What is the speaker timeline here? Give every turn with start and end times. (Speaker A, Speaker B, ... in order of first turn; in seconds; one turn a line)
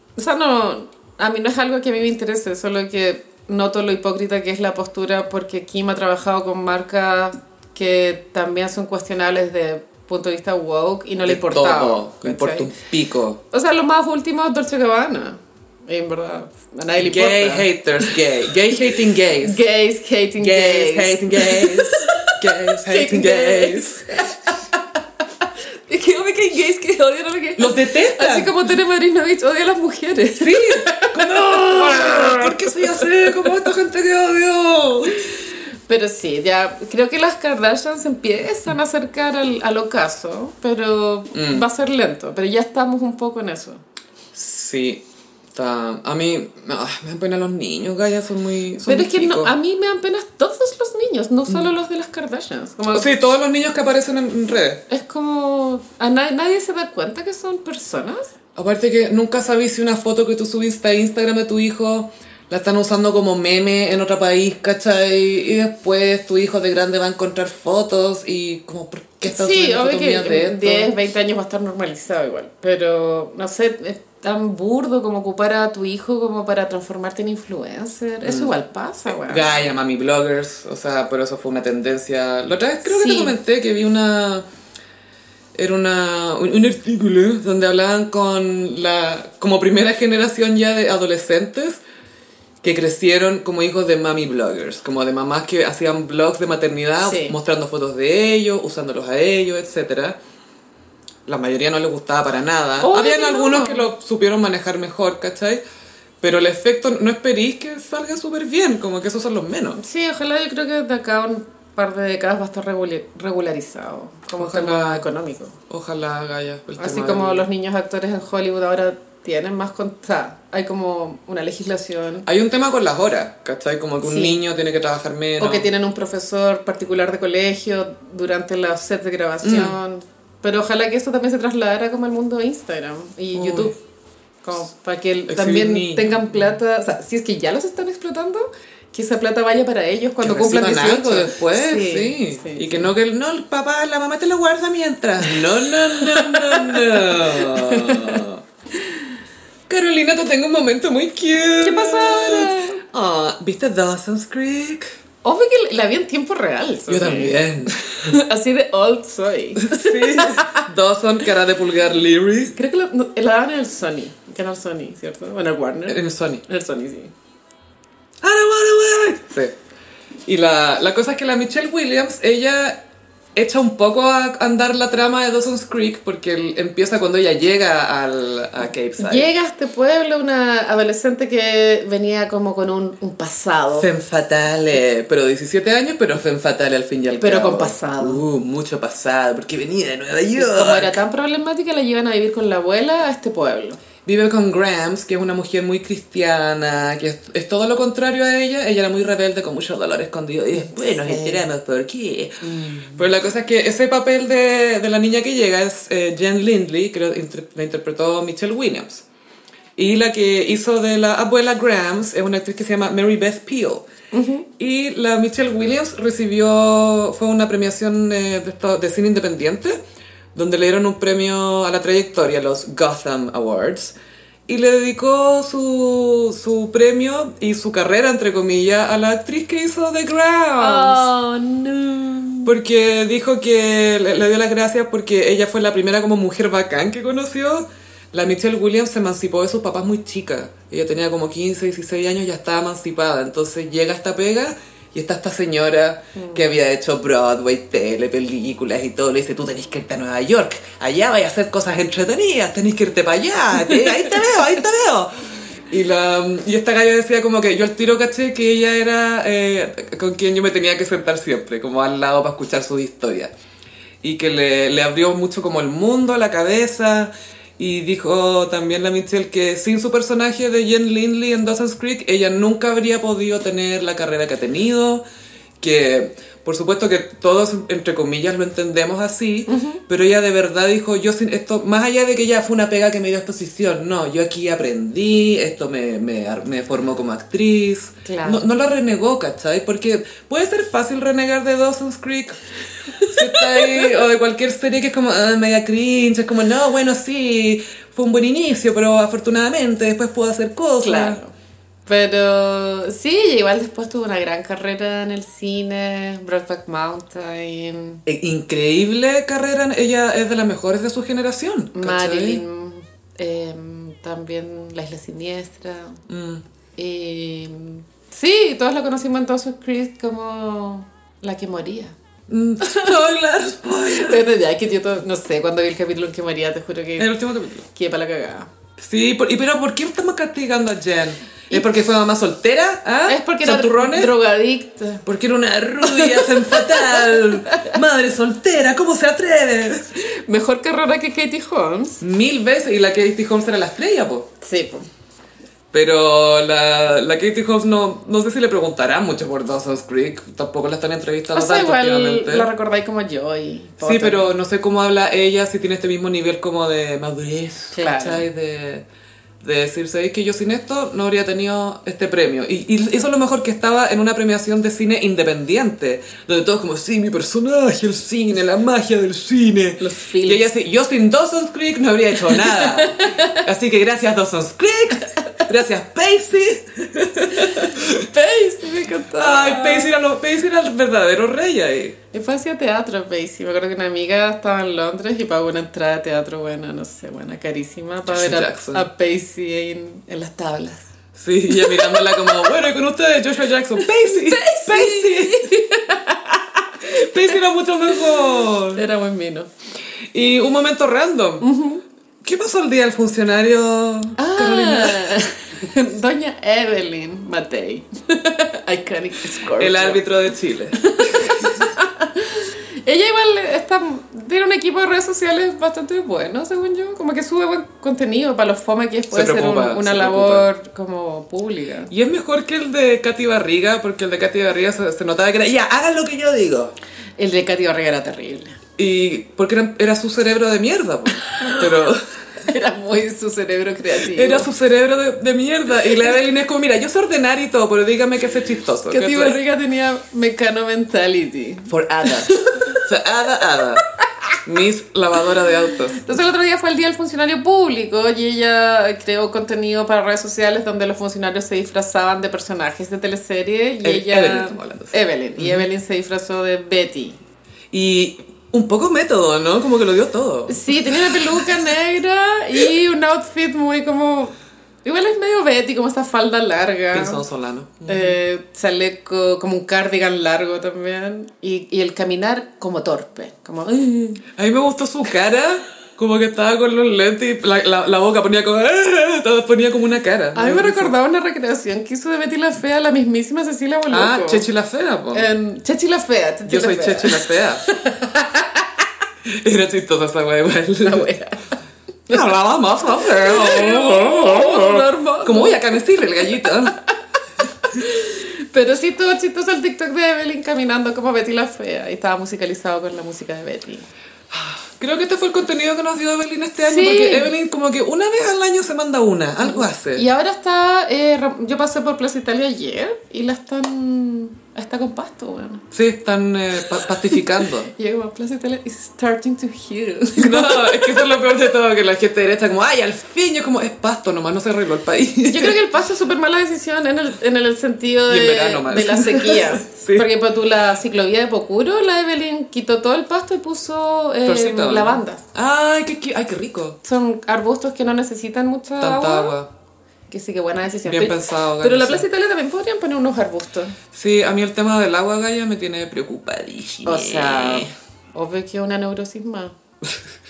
Speaker A: 0.2-12.7
Speaker B: 11.2-13.4
Speaker A: 13.5-18.2
Speaker B: 17.0-19.6
Speaker A: 19.4-24.6
Speaker B: 20.4-24.1
Speaker A: 25.9-33.5
Speaker B: 27.6-28.6
Speaker B: 30.4-35.2
Speaker A: 35.9-43.8
Speaker B: 41.3-41.6
Speaker B: 44.3-49.5
Speaker A: 48.9-53.1
Speaker B: 52.9-54.8
Speaker A: 54.9-58.3
Speaker B: 58.5-70.9
Speaker A: 69.2-79.7
Speaker B: 78.2-78.5
Speaker B: 79.1-84.4
Speaker A: 82.8-83.4
Speaker B: 85.5-91.8
Speaker B: 92.6-100.2
Speaker A: 97.0-97.3
Speaker B: 101.2-105.6
Speaker A: 102.8-103.9
Speaker B: 106.2-109.8
Speaker A: 109.8-115.5
Speaker B: 114.4-115.0
Speaker B: 115.7-117.5
Speaker A: 116.8-122.3
Speaker B: 122.2-125.7
Speaker A: 124.0-124.4
Speaker A: 125.4-133.8
Speaker B: 129.4-129.8
Speaker B: 133.3-133.7
Speaker A: 134.4-142.9
Speaker B: 135.3-136.6
Speaker B: 140.2-148.4
Speaker A: 145.2-148.2
Speaker B: 149.7-154.9
Speaker A: 151.6-152.8
Speaker A: 155.2-160.7
Speaker B: 156.9-158.1
Speaker B: 159.6-162.5
Speaker A: 162.5-167.1
Speaker B: 165.9-166.4
Speaker B: 168.2-169.5
Speaker B: 170.2-172.8
Speaker B: 173.3-179.3
Speaker A: 179.0-183.9
Speaker B: 183.7-191.0
Speaker A: 187.2-188.2
Speaker A: 190.3-193.8
Speaker B: 194.0-209.0
Speaker A: 200.6-201.4
Speaker A: 202.4-202.9
Speaker B: 209.8-213.8
Speaker A: 214.1-214.5
Speaker B: 214.6-219.8
Speaker B: 220.3-223.9
Speaker B: 224.5-231.1
Speaker A: 230.6-232.5
Speaker B: 232.4-255.1
Speaker A: 246.1-246.5
Speaker B: 255.7-263.3
Speaker B: 264.0-275.0
Speaker B: 275.6-292.4
Speaker A: 279.5-279.8
Speaker A: 288.0-288.4
Speaker A: 293.0-293.8
Speaker B: 293.0-301.2
Speaker A: 300.8-301.3
Speaker A: 301.9-308.0
Speaker B: 308.1-312.4
Speaker A: 311.7-316.0
Speaker B: 316.1-316.4
Speaker A: 316.8-321.9
Speaker B: 322.3-324.2
Speaker A: 322.6-322.9
Speaker A: 323.9-327.1
Speaker B: 327.0-327.6
Speaker A: 327.7-328.5
Speaker B: 328.8-334.1
Speaker A: 333.1-335.0
Speaker B: 335.0-339.9
Speaker A: 335.8-337.8
Speaker A: 339.9-342.0
Speaker B: 342.0-344.3
Speaker A: 344.4-344.9
Speaker B: 345.7-352.5
Speaker A: 351.3-354.3
Speaker B: 353.8-358.8
Speaker A: 357.7-358.2
Speaker B: 359.4-378.1
Speaker A: 369.8-370.5
Speaker A: 372.2-373.4
Speaker A: 377.3-379.9
Speaker B: 379.1-381.9
Speaker A: 382.1-390.9
Speaker B: 388.1-388.9
Speaker B: 391.1-395.5
Speaker A: 391.5-392.6
Speaker A: 393.8-397.3
Speaker B: 396.9-398.8
Speaker A: 398.3-399.5
Speaker B: 400.1-401.5
Speaker A: 401.4-401.8
Speaker B: 402.2-405.1
Speaker A: 404.2-410.0
Speaker B: 409.6-411.4
Speaker A: 410.8-421.9
Speaker B: 419.1-420.5
Speaker B: 421.9-426.7
Speaker A: 427.2-428.6
Speaker B: 428.8-432.0
Speaker A: 431.2-431.6
Speaker A: 432.4-434.5
Speaker B: 434.0-439.4
Speaker A: 438.9-442.8
Speaker B: 441.7-443.8
Speaker B: 444.4-446.0
Speaker A: 445.9-457.2
Speaker B: 453.8-455.6
Speaker B: 457.7-461.2
Speaker A: 460.5-467.2
Speaker B: 466.9-468.2
Speaker A: 467.9-474.2
Speaker B: 474.4-480.9
Speaker A: 480.3-484.4
Speaker B: 483.9-485.3
Speaker A: 485.1-488.8
Speaker B: 486.5-487.6
Speaker B: 489.3-491.1
Speaker A: 490.8-491.4
Speaker B: 492.1-496.8
Speaker A: 493.0-495.8
Speaker A: 496.4-496.7
Speaker A: 497.6-503.9
Speaker B: 504.3-510.1
Speaker A: 506.6-507.3
Speaker A: 509.9-515.6
Speaker B: 515.7-517.7
Speaker A: 517.7-521.1
Speaker B: 520.1-525.6
Speaker A: 525.2-535.2
Speaker B: 528.1-530.1
Speaker B: 534.2-536.8
Speaker A: 536.8-539.3
Speaker B: 538.8-539.5
Speaker A: 540.1-543.8
Speaker B: 540.9-542.0
Speaker B: 543.9-547.7
Speaker A: 546.8-549.5